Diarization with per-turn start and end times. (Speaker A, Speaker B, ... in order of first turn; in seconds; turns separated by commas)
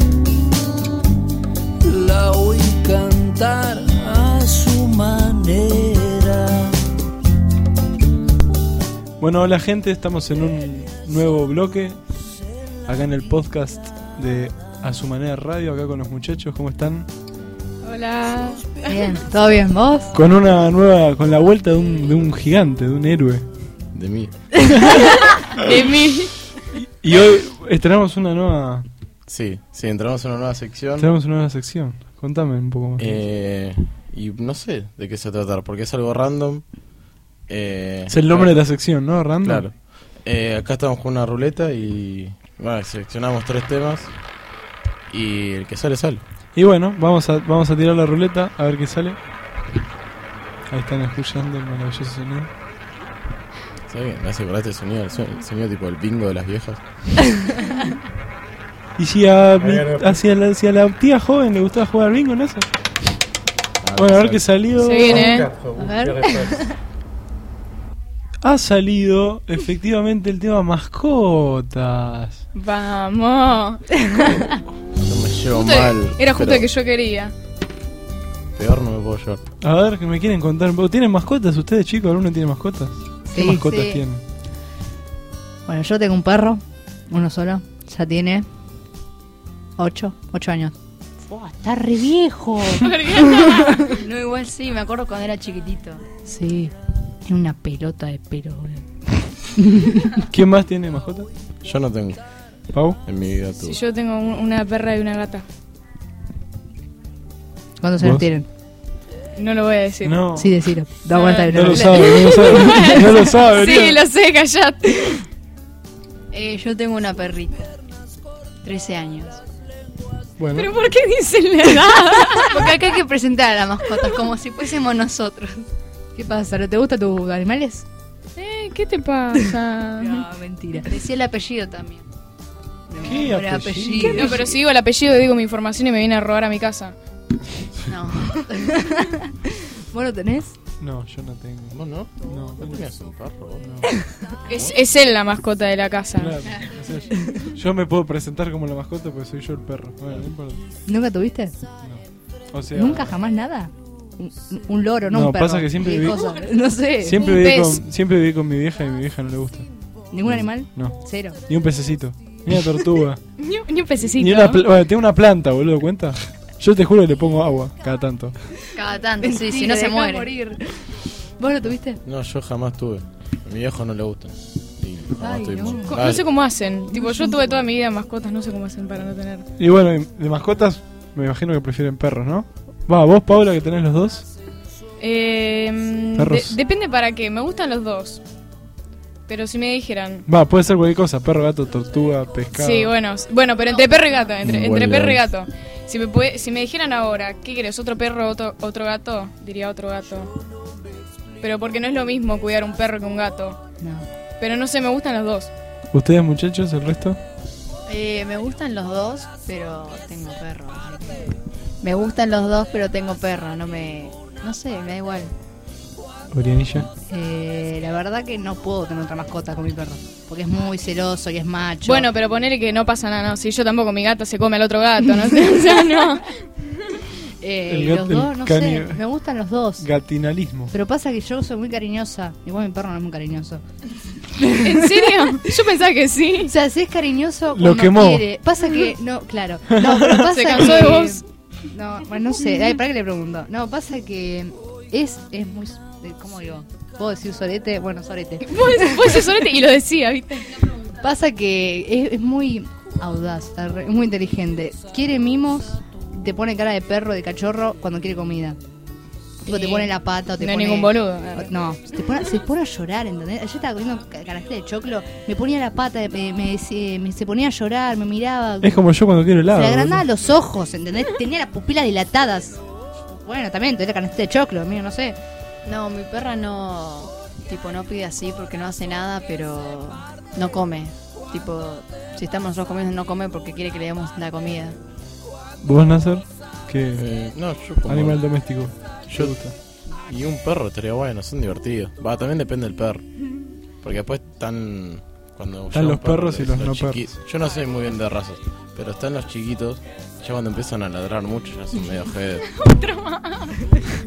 Speaker A: 1.8-6.8, Speaker B: 9.2-12.0, Speaker B: 12.8-17.1, Speaker C: 17.8-18.8, Speaker D: 18.9-20.2, Speaker B: 20.1-23.5, Speaker E: 23.9-24.9, Speaker F: 24.8-26.3, Speaker C: 25.7-26.3, Speaker B: 26.6-28.9, Speaker E: 29.3-31.1, Speaker B: 31.0-33.2, Speaker E: 33.0-36.7, Speaker E: 37.5-38.9, Speaker B: 38.1-39.7, Speaker E: 39.4-44.1, Speaker E: 45.1-46.2, Speaker B: 46.5-49.2, Speaker B: 50.7-52.5, Speaker E: 53.9-56.8, Speaker B: 59.0-62.7, Speaker E: 63.8-65.8, Speaker B: 64.0-65.4, Speaker C: 64.8-65.5, Speaker D: 65.7-66.8, Speaker B: 68.4-72.4, Speaker C: 72.5-74.5, Speaker E: 75.0-76.7, Speaker C: 75.6-77.3, Speaker E: 78.6-79.4, Speaker B: 79.6-84.2, Speaker D: 83.3-84.0, Speaker D: 85.7-88.5, Speaker D: 89.8-93.9, Speaker C: 92.8-93.5, Speaker F: 93.2-96.0, Speaker D: 96.2-96.7, Speaker D: 97.3-100.2, Speaker B: 100.2-101.3, Speaker E: 101.6-102.2, Speaker B: 102.7-103.0, Speaker E: 103.0-103.8, Speaker C: 103.6-105.5, Speaker D: 107.8-108.5, Speaker B: 108.0-108.3, Speaker C: 109.4-110.3, Speaker B: 110.0-110.6, Speaker D: 110.4-112.7, Speaker C: 111.1-111.5, Speaker B: 111.5-114.0, Speaker C: 112.4-113.0, Speaker F: 112.7-114.2, Speaker C: 114.0-115.2, Speaker F: 116.3-117.8, Speaker F: 118.6-119.4, Speaker B: 120.4-120.7, Speaker C: 120.5-122.7, Speaker F: 122.0-125.7, Speaker D: 126.2-127.9, Speaker C: 128.4-130.1, Speaker D: 130.0-130.9, Speaker F: 130.9-132.1, Speaker D: 132.9-134.6, Speaker B: 133.0-134.4, Speaker C: 134.0-137.0, Speaker F: 137.9-138.7, Speaker D: 138.4-140.6, Speaker B: 140.8-142.9, Speaker E: 141.7-143.6, Speaker B: 143.6-143.9, Speaker C: 144.5-146.4, Speaker B: 146.2-150.7, Speaker D: 150.9-151.5, Speaker B: 151.8-153.2, Speaker D: 152.7-157.4, Speaker B: 155.1-156.3, Speaker B: 157.0-159.7, Speaker C: 157.2-157.8, Speaker D: 160.1-161.4, Speaker B: 160.2-163.2, Speaker C: 163.5-164.5, Speaker B: 164.2-168.3, Speaker F: 168.8-170.3, Speaker D: 169.2-172.0, Speaker E: 172.1-176.2, Speaker D: 175.2-176.0, Speaker C: 175.9-179.5, Speaker D: 176.9-177.6, Speaker B: 179.6-184.3, Speaker C: 185.0-188.2, Speaker B: 186.2-186.6, Speaker C: 189.3-190.3, Speaker B: 190.3-192.9, Speaker C: 192.5-200.3, Speaker E: 194.4-195.3, Speaker C: 201.4-203.6, Speaker D: 203.8-204.1, Speaker C: 204.4-205.5, Speaker B: 205.9-207.2, Speaker F: 207.9-215.3, Speaker B: 216.3-216.9, Speaker D: 217.1-222.1, Speaker C: 221.8-226.4, Speaker D: 227.1-229.9, Speaker B: 227.7-229.0, Speaker B: 229.8-230.7, Speaker D: 230.7-233.6, Speaker D: 234.2-235.3, Speaker C: 234.6-236.5, Speaker D: 236.5-249.3, Speaker B: 237.5-238.4, Speaker C: 240.3-241.2, Speaker C: 248.4-250.6, Speaker D: 250.8-258.6, Speaker D: 259.4-268.8, Speaker C: 259.5-259.8, Speaker C: 260.4-261.5, Speaker B: 268.6-270.1, Speaker D: 269.5-275.2, Speaker F: 275.6-284.8, Speaker B: 285.6-287.1, Speaker E: 287.0-288.5, Speaker B: 287.9-289.6, Speaker E: 289.1-289.4, Speaker E: 290.0-293.1, Speaker E: 293.8-302.5, Speaker B: 295.7-297.1, Speaker C: 302.5-303.8